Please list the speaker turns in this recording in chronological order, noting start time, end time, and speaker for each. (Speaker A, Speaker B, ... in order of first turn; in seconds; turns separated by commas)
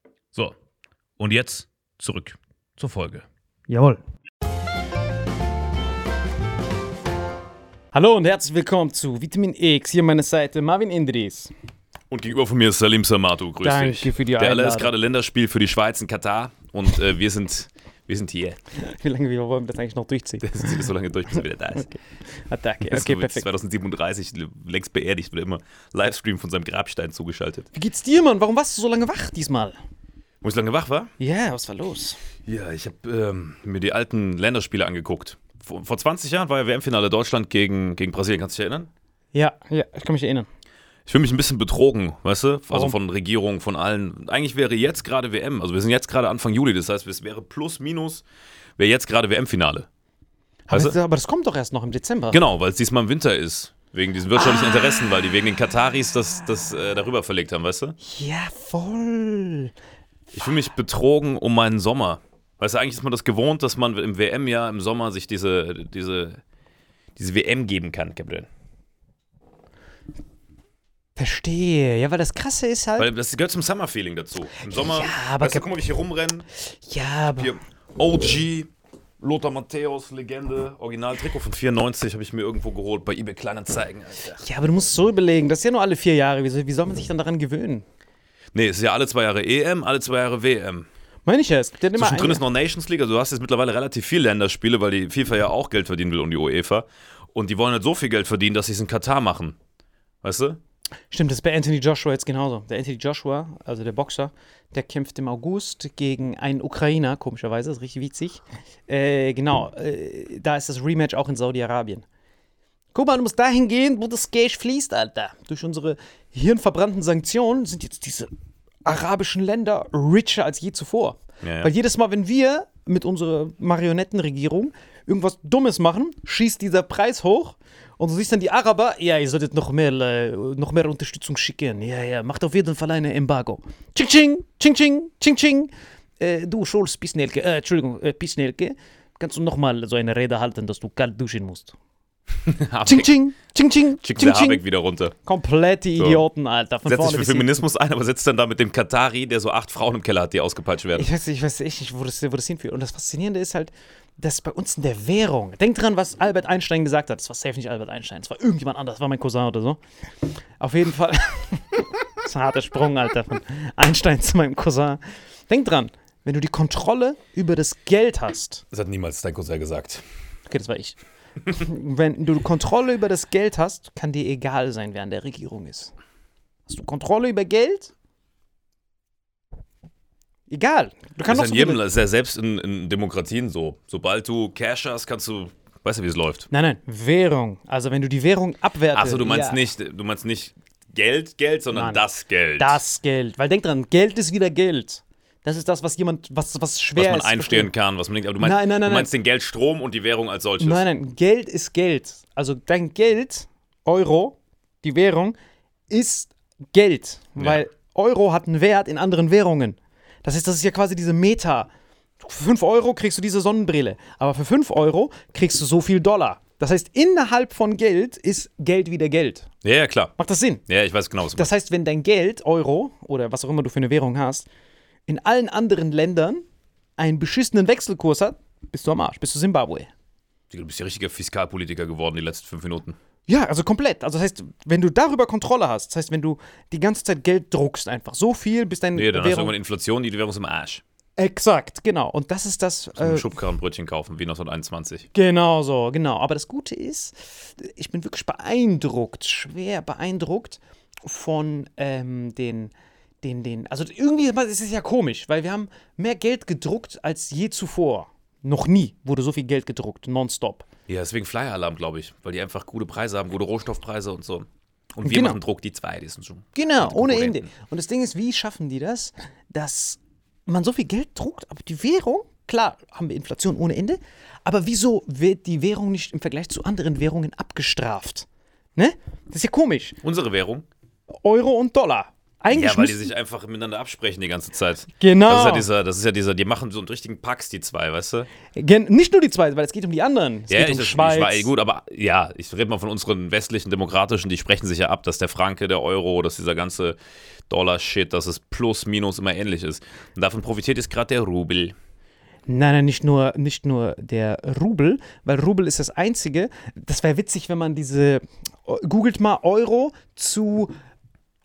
Speaker A: 1.2-3.2, Speaker B: 3.7-4.0, Speaker B: 7.9-11.5, Speaker A: 12.1-18.6, Speaker B: 13.6-14.9, Speaker B: 18.7-20.9, Speaker A: 20.4-21.9, Speaker B: 21.8-23.4, Speaker A: 22.8-27.7, Speaker B: 27.7-29.8, Speaker A: 30.4-31.1, Speaker B: 31.2-32.2, Speaker A: 32.5-38.9, Speaker B: 39.3-40.5, Speaker A: 41.1-48.2, Speaker B: 42.7-43.0, Speaker A: 48.8-49.9, Speaker B: 50.7-52.4, Speaker A: 50.7-50.9, Speaker A: 52.3-58.0, Speaker B: 54.4-55.1, Speaker B: 58.0-59.7, Speaker A: 60.3-66.4, Speaker A: 67.2-68.5, Speaker B: 71.2-73.1, Speaker A: 73.0-76.5, Speaker B: 74.7-75.7, Speaker B: 76.6-77.5, Speaker A: 77.3-78.7, Speaker A: 79.2-84.4, Speaker B: 84.4-87.8, Speaker A: 88.5-90.9, Speaker B: 91.2-92.4, Speaker A: 91.9-99.6, Speaker A: 100.2-100.6, Speaker B: 101.1-112.0, Speaker B: 112.9-118.3, Speaker B: 118.8-141.8, Speaker A: 121.4-121.7, Speaker A: 142.4-143.1, Speaker B: 142.8-144.6, Speaker A: 144.0-145.1, Speaker B: 145.2-147.6, Speaker A: 146.0-146.2, Speaker A: 146.8-151.1, Speaker B: 150.9-159.8, Speaker B: 160.6-168.6, Speaker A: 168.7-170.0, Speaker B: 170.5-171.0, Speaker B: 171.5-175.9, Speaker B: 176.7-177.9, Speaker B: 180.5-181.8, Speaker A: 181.3-186.5, Speaker B: 186.5-189.6, Speaker A: 188.9-192.8, Speaker B: 191.7-192.0, Speaker B: 192.6-197.7, Speaker A: 196.9-200.8, Speaker B: 198.4-199.1, Speaker B: 200.6-205.3, Speaker B: 205.9-211.7, Speaker B: 212.2-219.5, Speaker A: 219.6-220.1, Speaker B: 220.2-220.6, Speaker A: 220.7-221.5, Speaker B: 221.3-224.5, Speaker B: 225.1-226.4, Speaker B: 227.0-229.9, Speaker A: 230.5-233.0, Speaker B: 233.3-239.5, Speaker A: 238.9-240.8, Speaker B: 241.2-243.3, Speaker A: 242.9-245.1, Speaker B: 245.1-260.6, Speaker A: 260.9-267.5, Speaker B: 265.0-265.4, Speaker B: 266.6-280.0, Speaker A: 280.0-280.6, Speaker B: 281.1-283.1, Speaker A: 282.5-288.3, Speaker B: 285.0-285.7, Speaker B: 288.5-291.5, Speaker A: 290.5-296.9, Speaker A: 297.5-301.7, Speaker B: 302.5-310.7